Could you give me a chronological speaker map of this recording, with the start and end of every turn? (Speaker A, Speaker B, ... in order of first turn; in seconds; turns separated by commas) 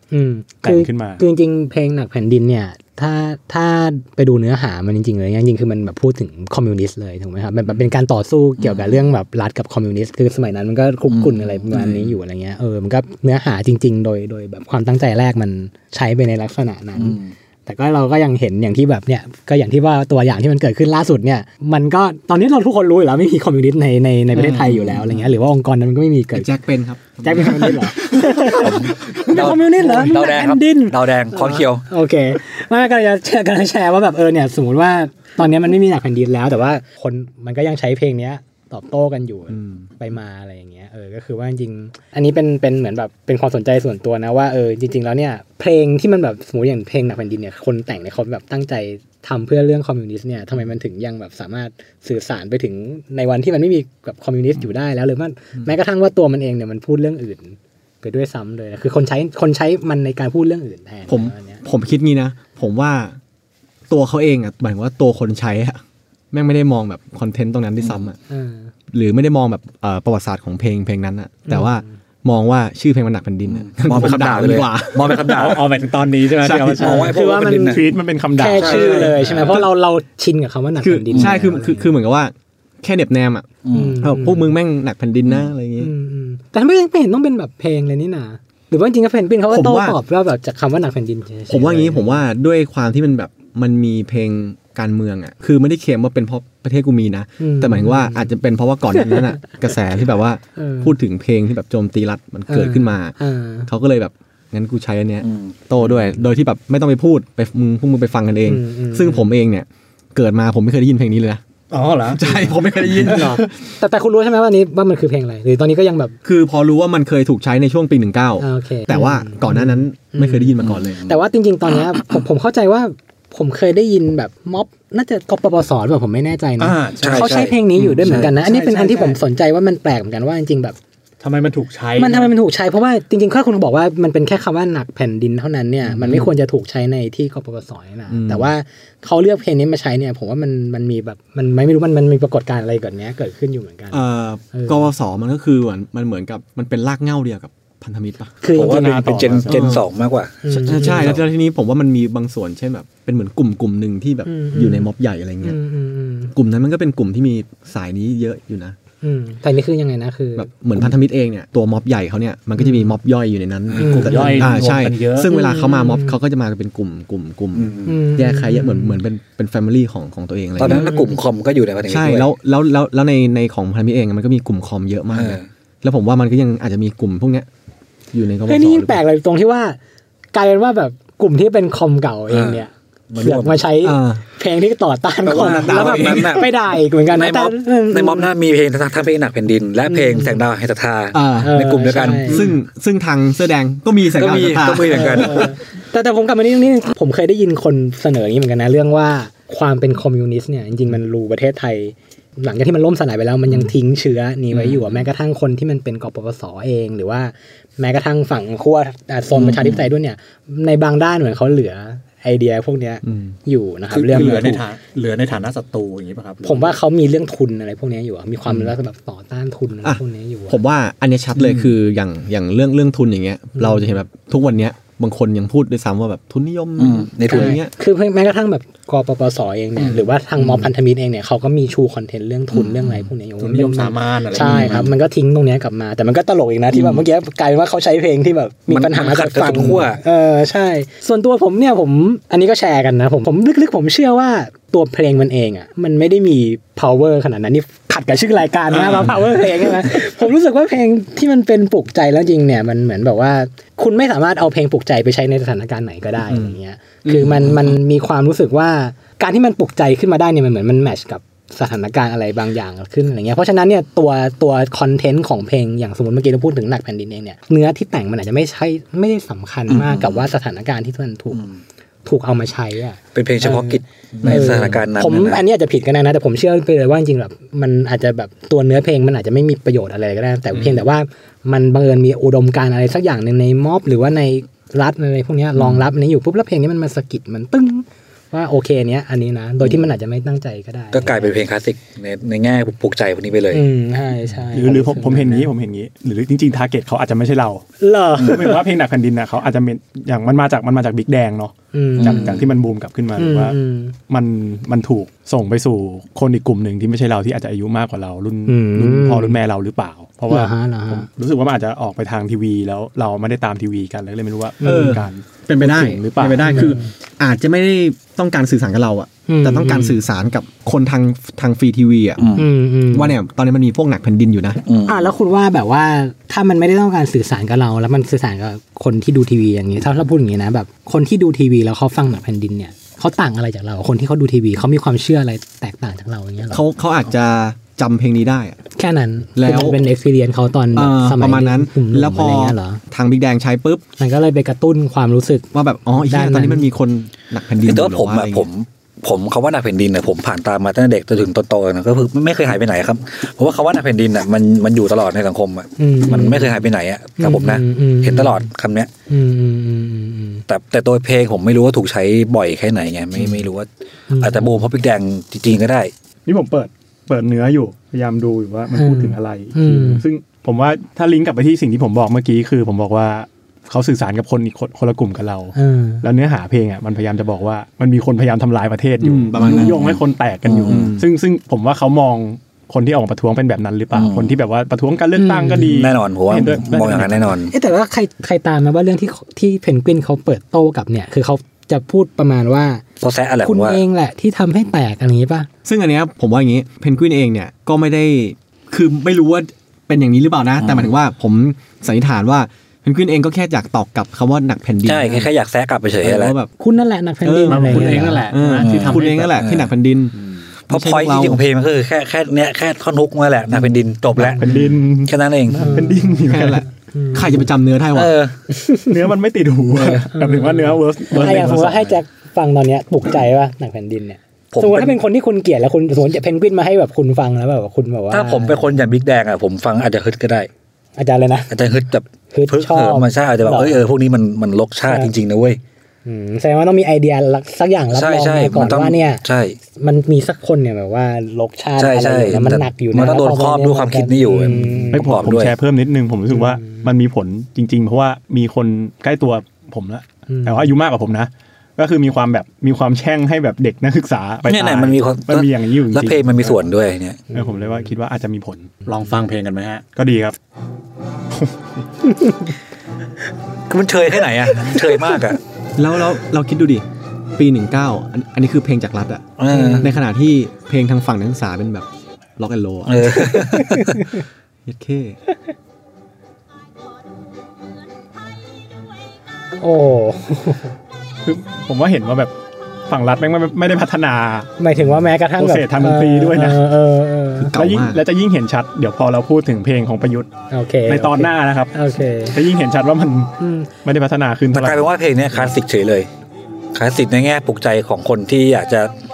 Speaker A: 0.1-26.5, Speaker B: 0.6-1.2, Speaker C: 8.6-9.0, Speaker C: 11.1-11.9, Speaker C: 17.0-17.3, Speaker D: 24.3-25.3, Speaker D: 26.3-29.1, Speaker A: 27.2-61.6, Speaker C: 28.6-31.8, Speaker D: 61.1-63.2, Speaker D: 63.9-65.8, Speaker D: 66.3-68.2, Speaker A: 68.3-68.7, Speaker D: 68.9-75.6, Speaker A: 71.5-71.9, Speaker C: 73.5-75.7, Speaker E: 75.1-77.1, Speaker D: 76.4-77.1, Speaker C: 76.8-77.8, Speaker A: 76.8-82.0, Speaker B: 77.6-79.5, Speaker C: 78.5-79.5, Speaker D: 79.4-79.7, Speaker D: 80.8-85.9, Speaker C: 83.7-84.0, Speaker A: 83.7-84.5, Speaker A: 85.8-92.2, Speaker D: 89.5-90.0, Speaker D: 91.5-111.4, Speaker A: 97.4-98.3, Speaker A: 100.6-101.0, Speaker A: 102.5-103.7, Speaker C: 105.2-105.5, Speaker A: 108.5-109.3, Speaker E: 111.7-113.4, Speaker D: 112.1-113.5, Speaker A: 112.3-116.2, Speaker D: 116.2-121.1, Speaker A: 118.4-130.8, Speaker C: 120.6-121.1, Speaker E: 126.6-127.4, Speaker C: 127.0-128.3, Speaker D: 127.8-128.3, Speaker E: 128.6-129.2, Speaker E: 131.2-132.3, Speaker A: 132.0-144.9, Speaker D: 135.9-136.3, Speaker D: 138.1-138.5, Speaker D: 143.9-148.4, Speaker A: 148.4-149.4, Speaker B: 148.5-149.8, Speaker C: 148.5-151.2, Speaker D: 149.5-149.8, Speaker A: 150.4-151.2, Speaker D: 150.7-155.6, Speaker A: 154.3-154.9, Speaker A: 155.4-156.3, Speaker D: 156.3-158.8, Speaker A: 159.0-160.5, Speaker D: 160.4-170.8, Speaker E: 163.7-165.3, Speaker A: 163.8-164.5, Speaker A: 165.2-166.2, Speaker C: 167.6-167.9, Speaker A: 167.9-169.0, Speaker C: 170.6-172.3, Speaker A: 170.6-171.2, Speaker D: 171.8-177.5, Speaker C: 175.1-175.5, Speaker D: 178.1-179.0, Speaker A: 178.5-179.8, Speaker A: 180.3-188.3, Speaker C: 182.3-183.6, Speaker D: 183.8-184.2, Speaker D: 185.3-186.5, Speaker C: 185.3-186.5, Speaker C: 187.1-192.5, Speaker A: 189.9-190.4, Speaker D: 191.1-195.5, Speaker A: 191.4-192.5, Speaker C: 194.1-195.5, Speaker A: 194.9-214.7, Speaker D: 209.4-209.8, Speaker D: 213.1-213.3, Speaker E: 213.9-216.8, Speaker A: 216.4-220.6, Speaker D: 219.8-227.7, Speaker E: 221.4-221.7, Speaker A: 223.6-223.9, Speaker C: 226.8-227.6, Speaker A: 227.3-271.5, Speaker D: 229.8-230.7, Speaker E: 233.4-234.9, Speaker C: 234.5-234.8, Speaker C: 238.7-240.0, Speaker D: 256.3-256.6, Speaker D: 257.1-257.8, Speaker C: 269.7-270.2, Speaker A: 272.1-291.4, Speaker C: 273.1-275.4, Speaker C: 290.9-293.6, Speaker A: 293.5-295.5, Speaker B: 294.5-297.6, Speaker A: 297.8-298.6, Speaker B: 298.2-303.6, Speaker A: 301.7-302.4, Speaker C: 302.0-302.4, Speaker A: 303.2-304.0, Speaker B: 304.1-316.7, Speaker A: 308.5-309.4, Speaker A: 310.3-311.1, Speaker A: 314.6-315.0, Speaker D: 314.6-322.4, Speaker A: 316.4-316.9, Speaker A: 319.3-320.0, Speaker C: 322.2-322.4, Speaker A: 322.4-323.2, Speaker D: 322.9-324.6, Speaker C: 324.6-325.1, Speaker A: 324.9-336.6, Speaker D: 336.5-338.6, Speaker A: 338.8-342.8, Speaker D: 339.4-339.8, Speaker D: 340.7-343.9, Speaker A: 344.0-346.7, Speaker D: 345.5-348.5, Speaker C: 347.6-358.9, Speaker A: 355.8-356.6, Speaker A: 357.2-358.5, Speaker A: 359.1-360.5, Speaker C: 360.5-365.9, Speaker A: 364.1-364.6, Speaker B: 366.3-387.4, Speaker A: 368.7-370.1, Speaker A: 375.6-376.1, Speaker D: 379.0-380.0, Speaker D: 380.6-381.1, Speaker C: 383.9-384.4, Speaker A: 385.2-385.7, Speaker C: 385.6-387.5, Speaker A: 387.5-392.8, Speaker C: 393.0-393.8, Speaker A: 393.4-395.5, Speaker D: 395.6-405.3, Speaker C: 400.6-400.9, Speaker C: 404.9-406.4, Speaker D: 406.0-406.5, Speaker A: 406.6-408.3, Speaker D: 407.2-410.1, Speaker E: 407.5-409.5, Speaker C: 408.6-409.7, Speaker E: 410.1-410.5, Speaker D: 410.7-411.4, Speaker C: 410.7-414.5, Speaker B: 414.1-416.6, Speaker D: 414.4-414.8, Speaker C: 415.1-415.9, Speaker A: 415.5-417.5, Speaker D: 416.1-418.1, Speaker C: 417.9-418.4, Speaker A: 418.5-418.9, Speaker B: 418.9-422.0, Speaker A: 420.1-428.7, Speaker C: 424.5-425.0, Speaker C: 428.1-430.5, Speaker A: 431.0-431.5, Speaker C: 431.5-435.6, Speaker A: 432.3-433.8, Speaker A: 434.9-435.1, Speaker A: 436.1-439.2, Speaker C: 437.9-439.6, Speaker A: 439.8-445.1, Speaker C: 441.8-445.5, Speaker B: 444.9-456.6, Speaker A: 446.3-446.9, Speaker A: 450.3-450.7, Speaker C: 454.5-457.2, Speaker A: 457.3-457.7, Speaker B: 457.3-458.7, Speaker E: 458.9-459.9, Speaker B: 459.9-460.4, Speaker A: 462.1-462.5, Speaker C: 463.7-465.4, Speaker A: 464.6-465.2, Speaker D: 465.8-466.9, Speaker D: 467.4-469.2, Speaker C: 469.4-469.9, Speaker A: 469.5-470.0, Speaker D: 469.8-473.5, Speaker C: 472.9-474.0, Speaker A: 473.2-474.2, Speaker D: 474.7-475.2, Speaker A: 479.6-480.8, Speaker B: 481.2-482.3, Speaker B: 482.9-484.5, Speaker A: 484.6-487.6, Speaker B: 485.4-486.6, Speaker D: 487.4-488.0, Speaker B: 487.5-490.3, Speaker A: 490.5-492.4, Speaker B: 490.9-491.8, Speaker B: 492.3-494.9, Speaker A: 493.4-493.7, Speaker C: 494.5-496.1, Speaker C: 496.7-498.9